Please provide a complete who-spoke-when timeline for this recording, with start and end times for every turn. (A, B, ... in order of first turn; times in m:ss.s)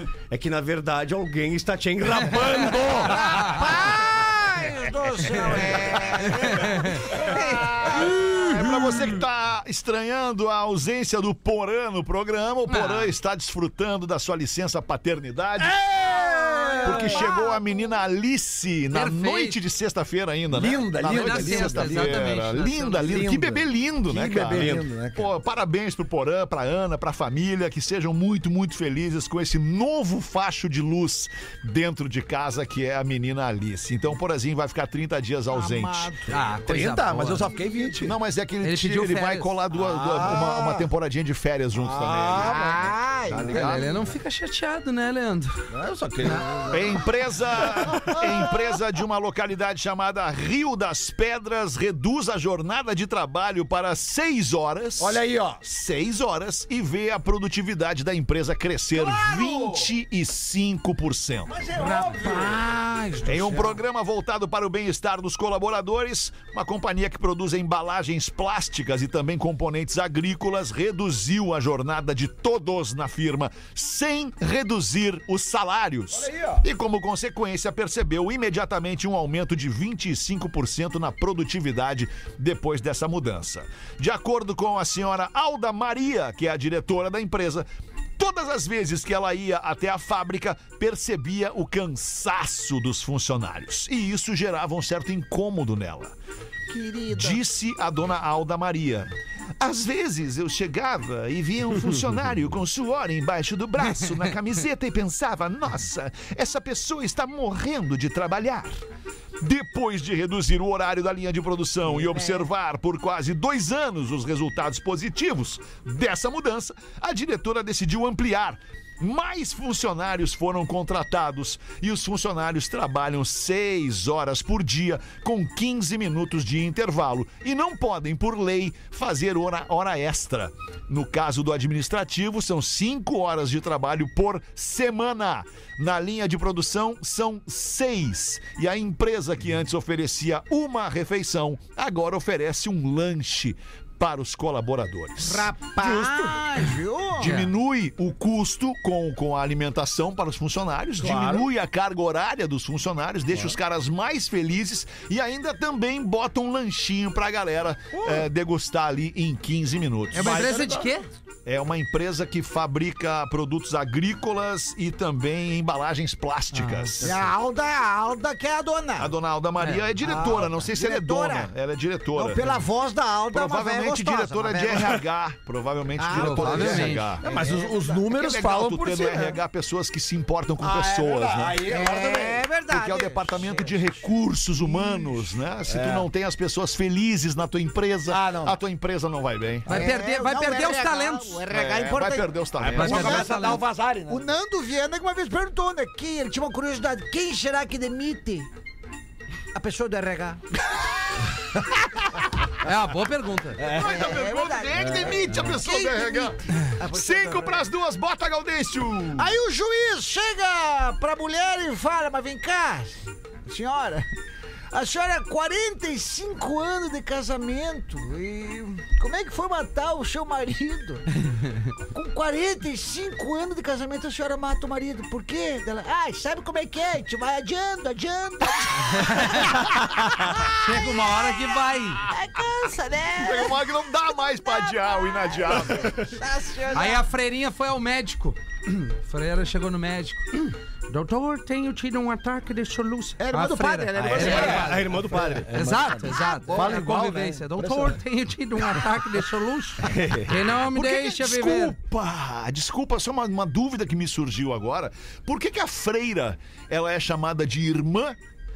0:00.3-0:03.8 A
0:03.4-0:08.9 B
0:06.3-0:07.0 C
0:07.8-0:15.8 D
0:12.7-0:13.1 C
0:15.6-0:17.3 E
0:16.1-0:17.7 B
0:16.8-0:36.1 D
0:18.9-0:19.6 C
0:20.5-0:22.3 E
0:21.0-0:23.2 C
0:23.0-0:25.3 E
0:24.6-0:24.9 A
0:35.5-0:36.4 B
0:36.3-0:37.6 C
0:36.6-0:38.2 E
0:37.4-0:38.0 B
0:38.0-0:42.6 D
0:38.6-0:39.5 C
0:39.7-0:40.9 E
0:41.8-0:43.8 E
0:42.4-0:43.7 B
0:43.3-0:44.0 D
0:43.5-0:45.6 C
0:45.7-0:47.0 E
0:46.7-1:01.6 D
0:47.7-0:48.5 E
0:55.0-0:55.6 E
0:59.0-0:59.9 E
1:01.5-1:02.6 E
1:01.8-1:03.7 B
1:03.2-1:36.2 D
1:16.1-1:16.7 E
1:36.7-1:37.4 B
1:37.1-1:48.8 D
1:49.4-2:25.6 D
1:52.1-1:52.4 B
2:25.2-2:27.4 B
2:27.2-2:27.5 C
2:27.2-2:40.5 D
2:31.0-2:31.5 E
2:37.9-2:38.3 E
2:40.1-2:41.0 E
2:40.1-2:41.1 C
2:41.4-2:47.3 D
2:46.5-2:46.9 C
2:47.0-2:49.1 B
2:49.0-2:52.5 D
2:50.0-2:51.5 B
2:52.1-2:55.0 B
2:53.3-2:57.3 D
2:56.0-2:58.0 B
2:56.1-2:57.1 C
2:56.5-2:59.4 E
2:58.1-3:01.9 D
3:00.6-3:02.5 E
3:01.7-3:03.9 B
3:02.6-3:09.8 D
3:04.7-3:05.2 B
3:05.7-3:06.1 E
3:08.1-3:08.6 E
3:09.7-3:11.4 C
3:09.7-3:18.5 B
3:11.5-3:13.2 D
3:12.6-3:14.3 E
3:12.7-3:13.6 C
3:19.5-3:20.4 B
3:22.6-3:23.6 C
3:23.6-3:24.2 E
3:23.6-3:27.7 B
3:23.6-3:29.3 D
3:24.7-3:25.3 E
3:29.2-3:34.1 B
3:34.7-3:41.1 B
3:41.8-3:51.5 B
3:48.9-3:49.7 C
3:50.5-3:52.0 C
3:52.0-3:53.7 B
3:53.2-3:56.2 D
3:54.3-3:57.1 B
3:56.7-4:04.8 C
4:03.2-4:04.8 B
4:04.0-4:05.9 A
4:04.1-4:08.0 E
4:04.2-4:04.5 D
4:05.5-4:11.8 C
4:06.0-4:06.8 B
4:10.0-4:10.3 A
4:10.7-4:18.2 D